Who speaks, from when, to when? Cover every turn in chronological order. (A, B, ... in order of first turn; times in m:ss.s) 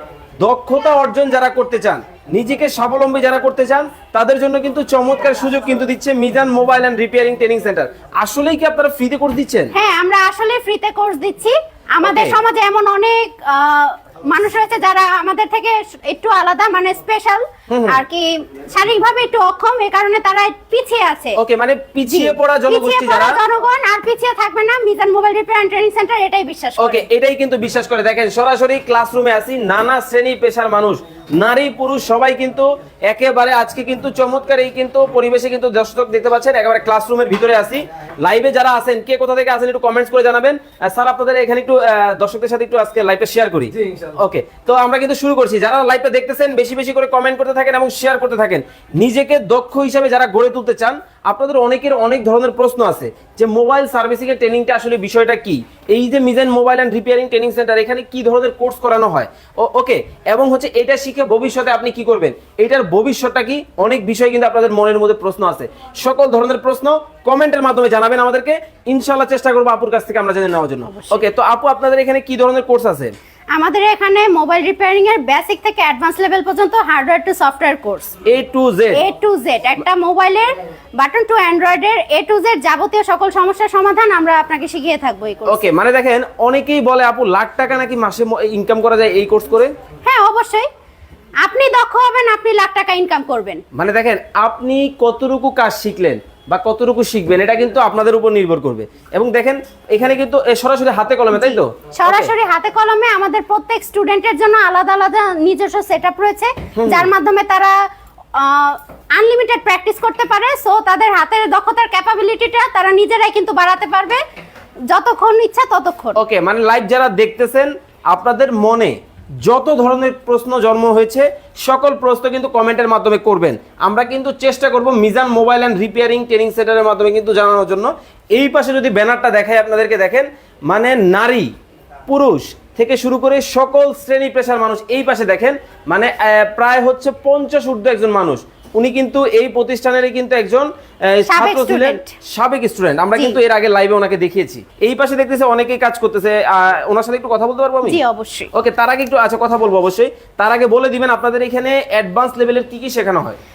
0:00.4-0:09.7 A
0:09.7-0:21.4 B
0:12.0-0:12.4 A
0:17.7-0:18.0 A
0:21.4-0:23.4 A
0:22.0-0:27.0 B
0:26.8-1:13.1 A
1:10.9-1:11.2 B
1:13.5-1:18.1 B
1:18.2-1:19.0 A
1:18.9-1:25.7 B
1:25.5-1:29.7 A
1:30.0-1:30.6 B
1:31.4-1:33.6 B
1:33.7-1:42.3 A
1:41.3-1:47.7 B
1:46.8-1:47.1 A
1:48.3-1:54.2 B
1:54.9-1:56.2 B
1:56.2-2:11.5 A
2:12.1-2:28.0 A
2:21.3-2:22.1 B
2:27.8-2:28.5 B
2:28.5-2:33.4 A